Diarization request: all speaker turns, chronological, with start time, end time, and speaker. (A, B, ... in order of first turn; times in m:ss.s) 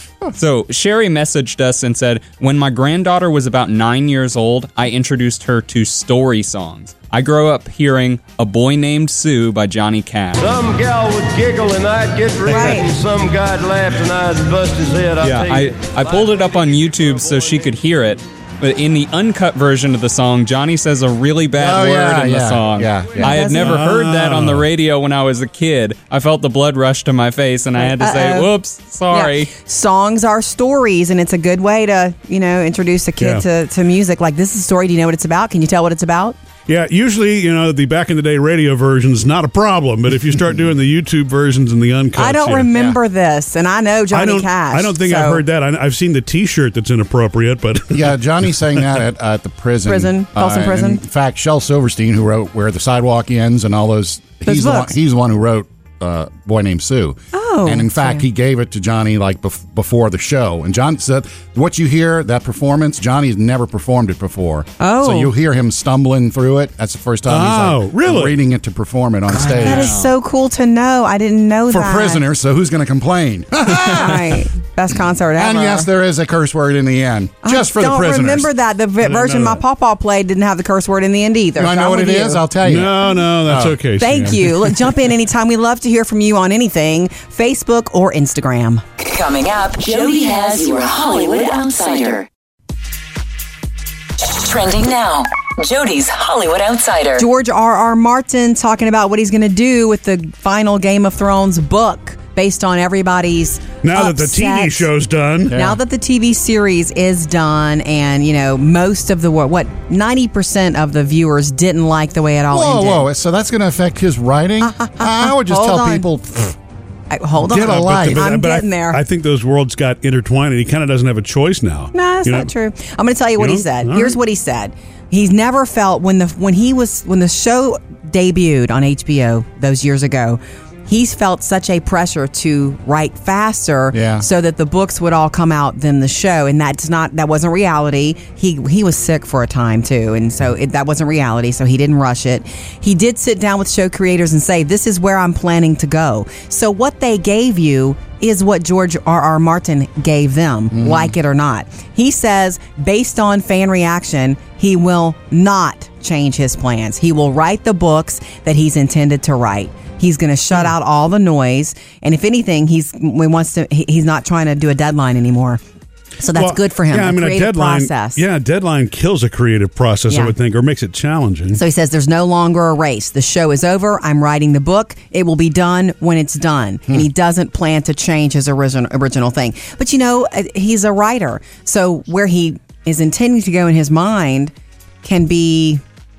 0:00.3-0:10.4 A
0:10.4-0:17.8 B
0:12.4-0:12.9 C
0:15.2-0:29.5 A
0:21.5-0:23.4 D
0:23.2-0:23.8 C
0:23.6-0:24.6 E
0:27.8-0:28.5 C
0:29.1-0:36.4 C
0:33.2-0:33.4 E
0:36.7-0:42.7 E
0:42.2-0:45.4 C
0:44.1-0:48.1 E
0:47.9-1:09.9 D
0:49.8-0:51.0 C
0:54.4-0:54.9 C
0:57.3-0:58.3 C
1:04.8-1:05.3 C
1:07.3-1:08.4 E
1:09.4-1:12.2 C
1:09.5-1:09.9 E
1:11.7-1:14.4 D
1:13.7-1:15.9 C
1:15.4-1:18.5 D
1:17.4-1:22.4 C
1:19.0-1:19.6 E
1:21.6-1:23.8 D
1:22.6-1:24.9 E
1:24.0-1:28.8 C
1:29.0-1:32.3 F
1:34.2-1:37.3 F
1:37.2-1:44.9 C
1:43.8-1:45.6 E
1:45.5-1:45.8 D
1:45.5-1:53.1 C
1:52.5-1:56.5 D
1:54.6-1:56.1 C
1:57.1-1:59.0 C
1:57.4-1:58.3 D
1:57.5-2:02.5 E
2:01.9-2:45.6 C
2:03.4-2:04.2 E
2:13.9-2:14.2 D
2:30.7-2:31.1 D
2:46.2-2:48.2 C
2:46.3-2:51.6 E
2:50.1-2:50.3 C
2:51.5-3:04.5 C
3:05.0-3:05.8 C